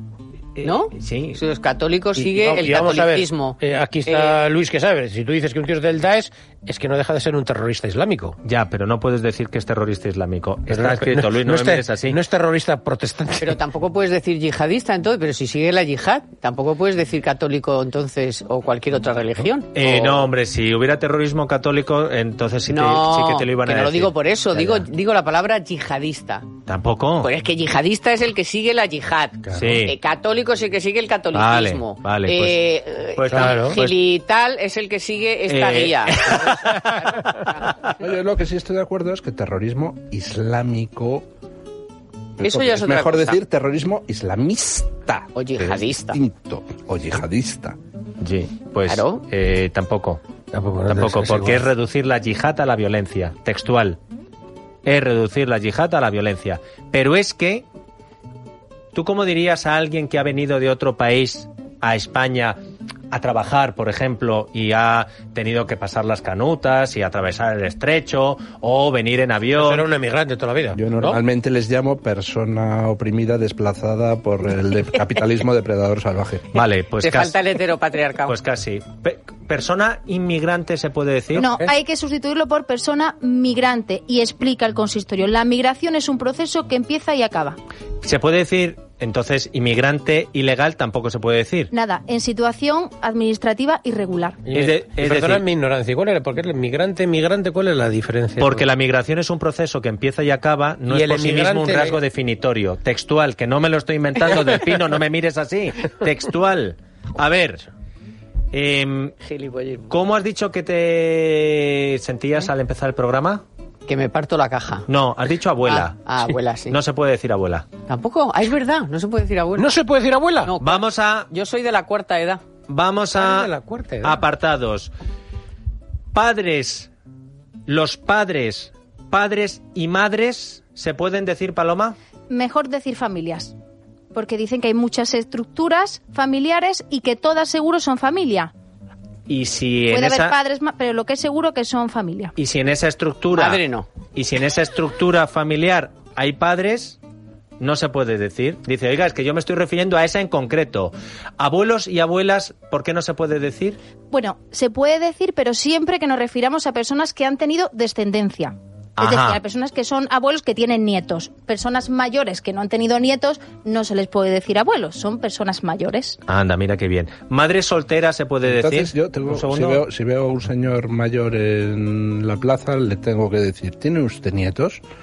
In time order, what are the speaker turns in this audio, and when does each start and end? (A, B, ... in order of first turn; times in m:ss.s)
0:00.6-0:01.4 A
0:00.6-0:04.4 B
0:02.1-0:08.4 C
0:08.4-0:12.2 A
0:10.7-0:13.6 C
0:13.4-0:20.3 B
0:19.7-0:24.8 A
0:22.7-0:26.5 B
0:26.6-0:27.3 A
0:27.2-0:37.6 B
0:29.6-0:29.9 A
0:31.3-0:32.6 A
0:33.1-0:33.9 A
0:33.3-0:33.8 C
0:35.5-0:37.5 A
0:37.9-0:41.2 D
0:42.4-0:47.8 D
0:42.4-0:43.4 B
0:45.3-0:46.2 B
0:48.2-0:50.2 A
0:48.9-0:49.2 B
0:50.5-0:51.6 C
0:50.9-0:54.0 A
0:54.8-0:57.6 A
0:58.9-1:02.6 A
1:03.1-1:09.9 A
1:09.5-1:11.2 C
1:10.7-1:16.5 D
1:16.5-1:17.4 A
1:17.0-1:18.4 B
1:18.2-1:21.5 A
1:21.3-1:27.6 E
1:28.0-1:31.7 A
1:31.7-1:34.4 E
1:34.5-1:38.6 C
1:34.5-1:35.4 A
1:38.4-1:47.6 A
1:40.9-1:42.0 C
1:48.5-1:49.2 A
1:49.2-1:50.0 B
1:49.9-1:53.4 A
1:53.8-1:54.9 B
1:54.9-1:56.0 A
1:55.6-1:56.8 B
1:56.7-1:57.7 A
1:57.9-1:59.7 B
1:59.6-2:00.5 C
2:00.4-2:02.4 B
2:00.6-2:01.3 A
2:02.7-2:03.5 A
2:03.2-2:04.2 C
2:04.0-2:04.9 A
2:06.1-2:06.9 A
2:07.7-2:12.0 A
2:12.3-2:13.5 E
2:14.1-2:18.5 E
2:19.3-2:20.4 A
2:19.9-2:22.3 E
2:22.4-2:23.6 A
2:23.3-2:23.9 B
2:24.1-2:27.0 A
2:27.6-2:33.8 A
2:34.1-2:46.2 E
2:39.0-2:39.4 A
2:46.2-2:49.8 A
2:48.4-2:54.8 D